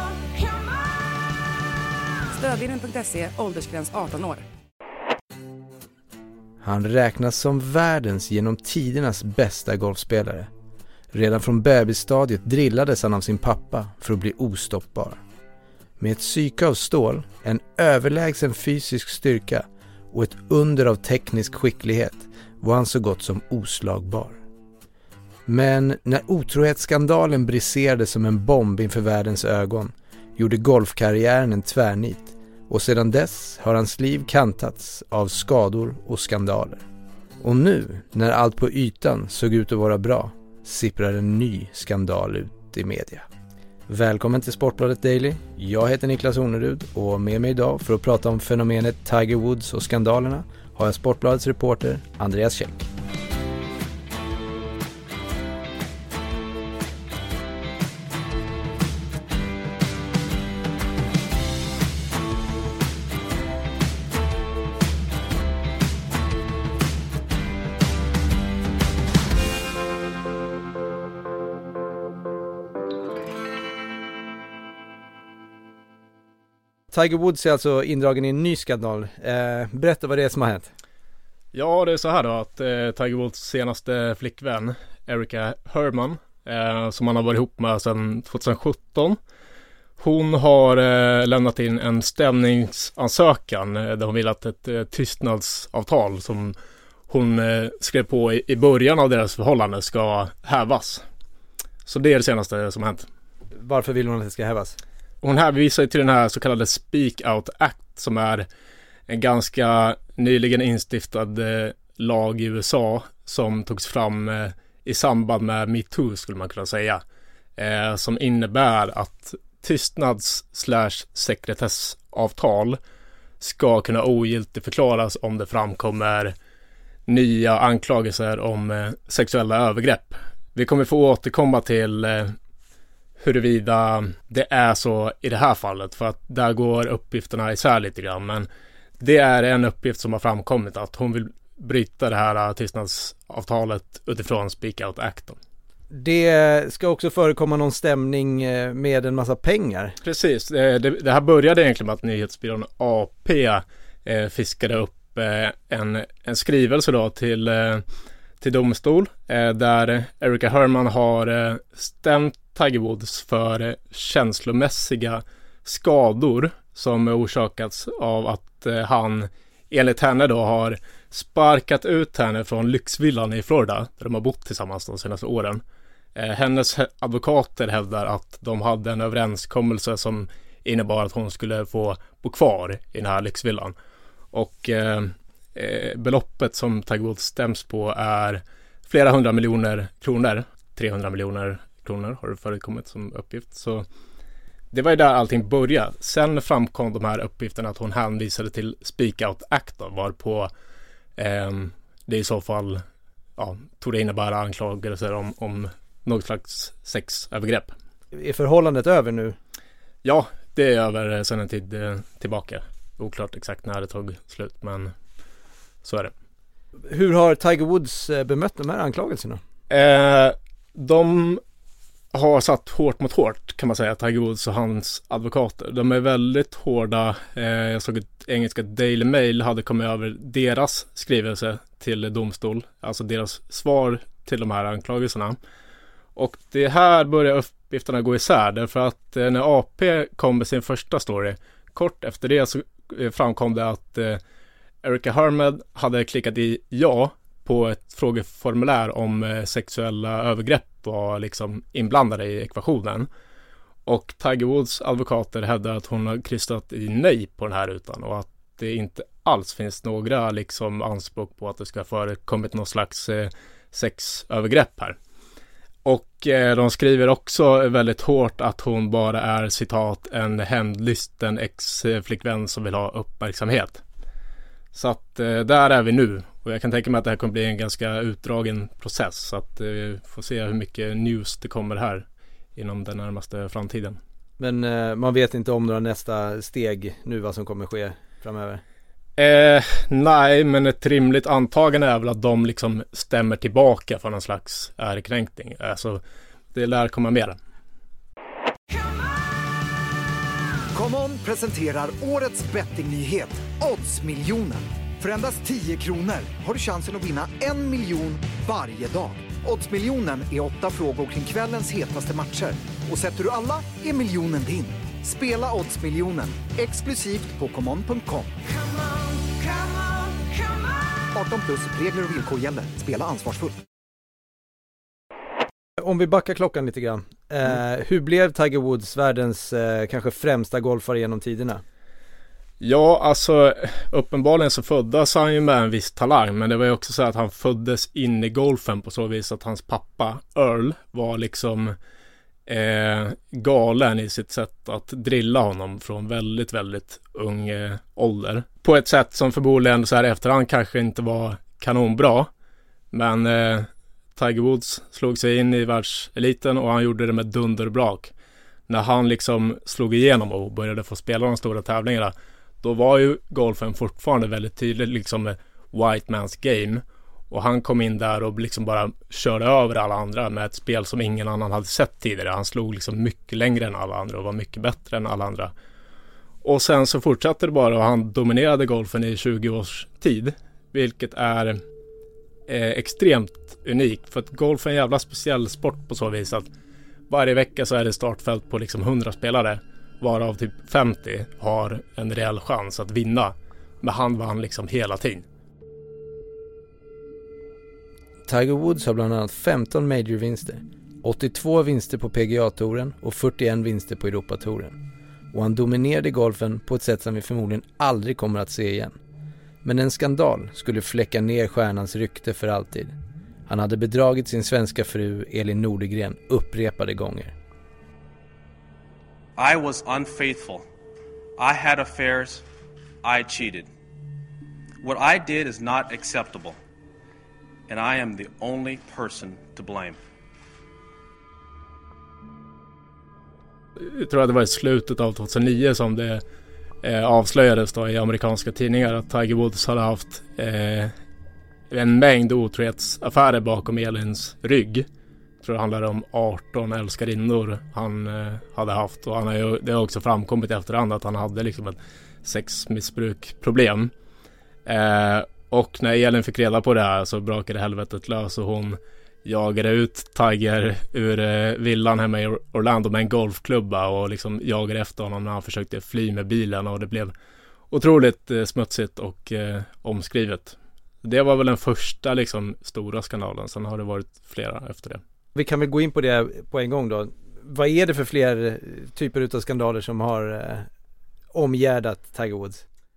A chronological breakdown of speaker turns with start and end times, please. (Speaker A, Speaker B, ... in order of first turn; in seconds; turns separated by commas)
Speaker A: 2.3-4.4, Speaker B: 6.6-10.5, Speaker B: 11.1-15.2, Speaker B: 16.0-24.4, Speaker B: 25.5-36.8, Speaker B: 37.4-43.2, Speaker B: 43.9-52.9, Speaker B: 76.9-80.7, Speaker C: 81.5-89.2, Speaker C: 90.0-96.5, Speaker C: 97.1-101.0, Speaker C: 101.8-103.1, Speaker B: 103.5-104.8, Speaker C: 105.2-108.5, Speaker C: 109.1-117.0, Speaker C: 117.6-122.8, Speaker C: 123.4-126.3, Speaker C: 127.1-132.3, Speaker C: 133.2-138.5, Speaker C: 139.0-145.4, Speaker B: 145.9-150.0, Speaker C: 150.0-157.8, Speaker C: 158.4-175.6, Speaker C: 176.2-183.7, Speaker C: 184.3-193.8, Speaker C: 194.7-200.5, Speaker C: 201.2-202.8, Speaker C: 203.4-207.7, Speaker B: 208.1-209.4, Speaker C: 210.0-214.9, Speaker C: 215.8-216.1, Speaker B: 216.9-219.4, Speaker C: 219.7-221.4, Speaker C: 222.1-235.4, Speaker C: 236.2-244.2, Speaker C: 244.8-253.1, Speaker C: 253.8-265.0, Speaker C: 265.8-273.8, Speaker C: 274.7-282.0, Speaker C: 282.6-284.0, Speaker B: 284.4-288.6, Speaker C: 289.2-296.0, Speaker C: 296.5-297.4, Speaker D: 300.7-318.4, Speaker D: 321.1-323.6, Speaker B: 325.8-331.6, Speaker C: 332.6-341.7, Speaker C: 342.5-352.3, Speaker C: 352.9-358.1, Speaker C: 358.7-375.5, Speaker C: 376.4-381.6, Speaker C: 382.5-386.5, Speaker C: 387.1-395.2, Speaker B: 398.3-404.8, Speaker B: 405.3-409.0, Speaker B: 409.6-412.9, Speaker B: 413.5-417.3, Speaker E: 419.4-420.6, Speaker E: 421.4-422.4, Speaker E: 423.0-423.7, Speaker E: 424.8-426.6, Speaker E: 427.7-430.0, Speaker C: 433.8-436.2, Speaker C: 436.8-440.9, Speaker C: 441.7-444.9, Speaker C: 445.4-453.9, Speaker C: 454.6-467.1, Speaker C: 467.7-475.0, Speaker B: 475.3-480.7, Speaker B: 481.3-482.6